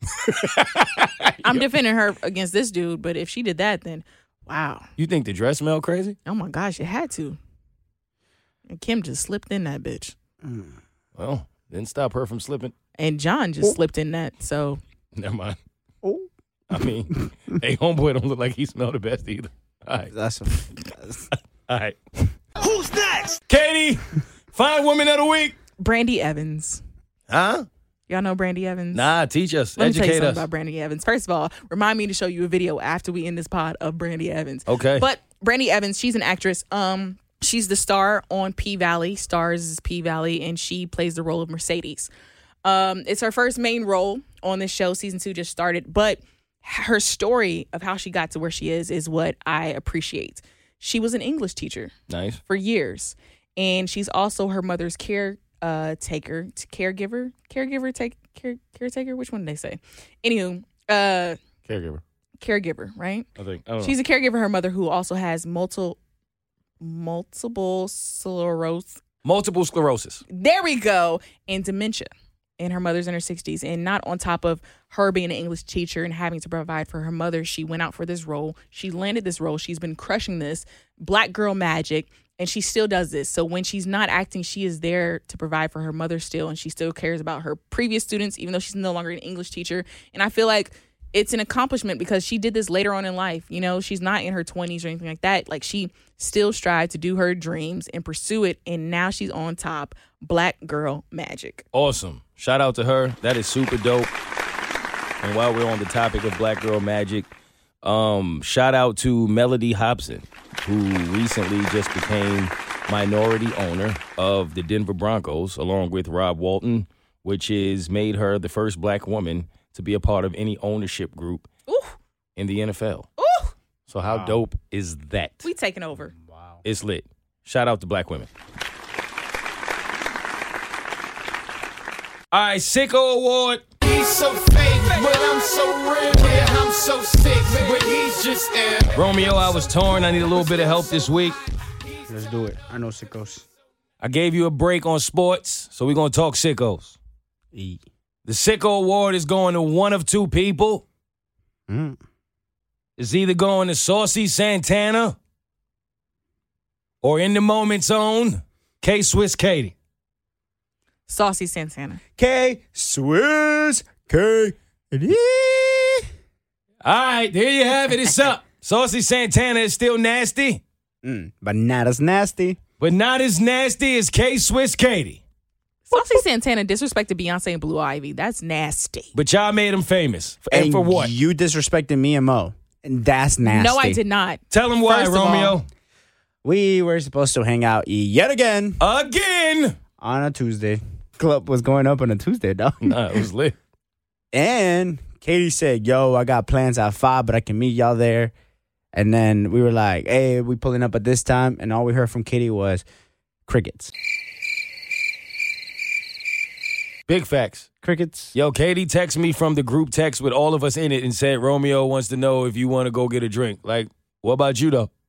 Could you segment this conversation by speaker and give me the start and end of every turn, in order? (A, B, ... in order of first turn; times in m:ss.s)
0:00.2-0:01.6 A
0:01.4-0:04.9 B
0:05.0-0:06.2 A
0:06.3-0:07.4 B
0:08.7-0:10.2 B
0:10.4-0:10.7 C
0:11.2-0:12.7 A
0:13.0-0:14.8 B
0:15.2-0:15.6 A
0:16.0-0:16.3 C
0:16.7-0:20.1 A
0:20.1-0:21.3 C
0:21.7-0:22.0 A
0:22.6-0:23.4 D
0:23.5-0:25.6 A
0:25.8-0:26.8 B
0:27.3-0:27.7 A
0:28.1-0:29.1 B
0:28.9-0:30.5 A
0:29.8-0:42.1 B
0:34.7-0:35.1 A
0:42.6-0:51.9 B
0:52.1-0:52.4 A
0:52.5-1:01.4 B
1:01.7-1:02.0 A
1:02.4-1:03.3 B
1:03.4-1:03.9 A
1:03.8-1:06.0 B
1:06.8-1:09.0 B
1:09.2-1:10.2 A
1:10.3-1:41.6 B
1:41.7-1:44.1 A
1:45.2-1:47.3 A
1:47.8-2:01.5 A
2:01.7-2:02.0 B
2:02.4-2:03.1 A
2:03.2-2:03.5 B
2:03.9-2:05.5 A
2:04.1-2:04.4 C
2:05.4-2:06.1 B
2:06.1-2:06.6 C
2:06.6-2:08.3 A
2:12.3-2:13.7 A
2:13.8-2:19.0 D
2:18.9-2:21.4 A
2:22.1-2:23.5 C
2:24.0-2:27.0 A
2:27.5-2:27.8 C
2:28.3-2:30.8 A
2:31.7-2:32.0 C
2:33.0-2:35.2 A
2:37.0-2:39.7 A
2:41.1-2:42.0 B
2:42.2-2:46.1 C
2:46.8-2:50.6 A
2:51.0-2:52.6 C
2:52.8-2:55.2 A
2:55.9-2:59.1 B
2:59.2-3:01.1 A
3:00.5-3:04.0 C
3:03.4-3:05.6 B
3:04.5-3:05.7 A
3:06.4-3:08.8 C
3:08.8-3:09.8 A
3:10.0-3:13.0 C
3:12.8-3:13.6 A
3:14.3-3:18.3 C
3:18.9-3:22.8 C
3:23.5-3:23.9 C
3:27.1-3:27.7 A
3:27.8-3:28.3 C
3:28.3-3:34.9 A